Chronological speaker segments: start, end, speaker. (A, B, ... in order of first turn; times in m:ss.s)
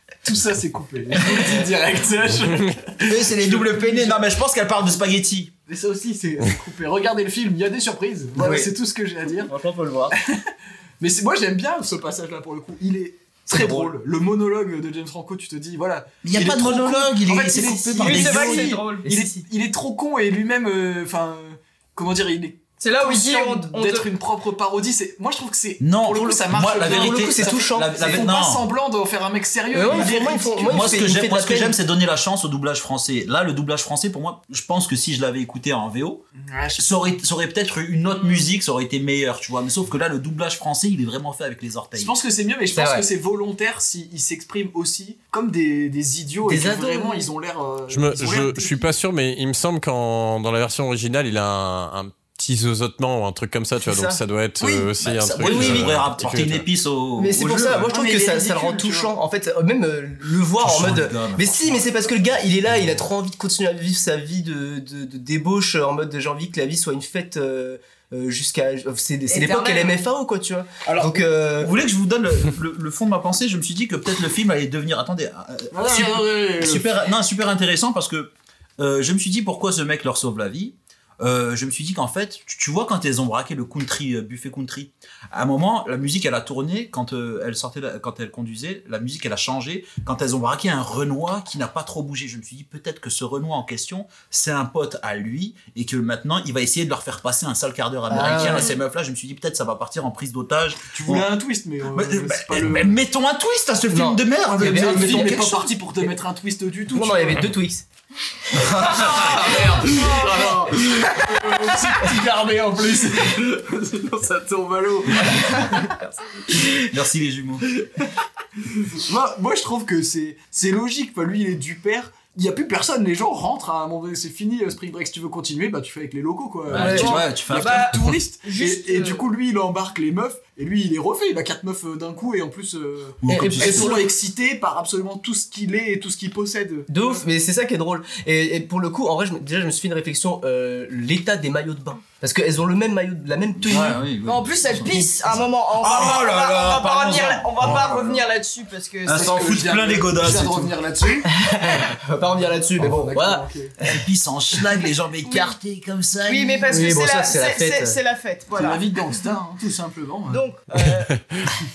0:00.2-0:04.2 A
0:03.0-0:05.5 B
0:05.7-0:09.5 A
0:08.4-0:08.7 C
0:09.5-0:10.1 C
0:10.3-0:31.1 A
0:13.5-0:13.9 C
0:16.2-0:18.8 B
0:17.9-0:19.1 D
0:19.0-0:19.4 C
0:22.8-0:24.1 D
0:25.8-0:28.7 B
0:26.8-0:28.3 C
0:29.7-0:31.8 C
0:29.8-0:36.2 B
0:36.4-0:36.9 A
0:36.8-0:42.2 B
0:41.9-0:48.9 A
0:42.7-0:43.1 C
0:46.4-0:47.3 C
0:47.9-0:56.6 E
0:53.8-0:54.2 C
0:54.6-0:54.9 A
0:55.0-0:57.9 B
0:55.4-0:55.8 A
0:55.5-0:55.9 C
0:57.2-1:11.7 C
0:57.7-0:59.1 A
1:00.6-1:01.9 B
1:09.3-1:10.0 D
1:10.9-1:41.3 B
1:15.7-1:17.0 A
1:38.1-1:38.7 C
1:40.9-1:43.0 A
1:41.8-1:45.7 B
1:43.9-1:45.5 C
1:44.5-1:47.5 A
1:46.9-1:47.8 C
1:48.6-1:49.3 C
1:48.6-1:55.9 A
1:49.0-1:50.6 D
1:56.6-1:57.7 B
1:58.6-2:17.2 A
2:06.7-2:08.0 B
2:06.7-2:07.1 C
2:06.8-2:09.2 D
2:13.2-2:14.0 B
2:13.3-2:14.0 C
2:16.9-2:24.0 C
2:23.6-2:28.2 B
2:24.2-2:29.6 D
2:29.0-2:30.8 B
2:29.1-2:31.3 A
2:31.2-2:33.4 C
2:32.8-2:33.8 A
2:33.8-2:37.0 B
2:35.2-2:35.5 D
2:36.3-2:38.9 D
2:36.7-2:38.0 C
2:38.5-2:40.4 A
2:40.3-2:41.4 D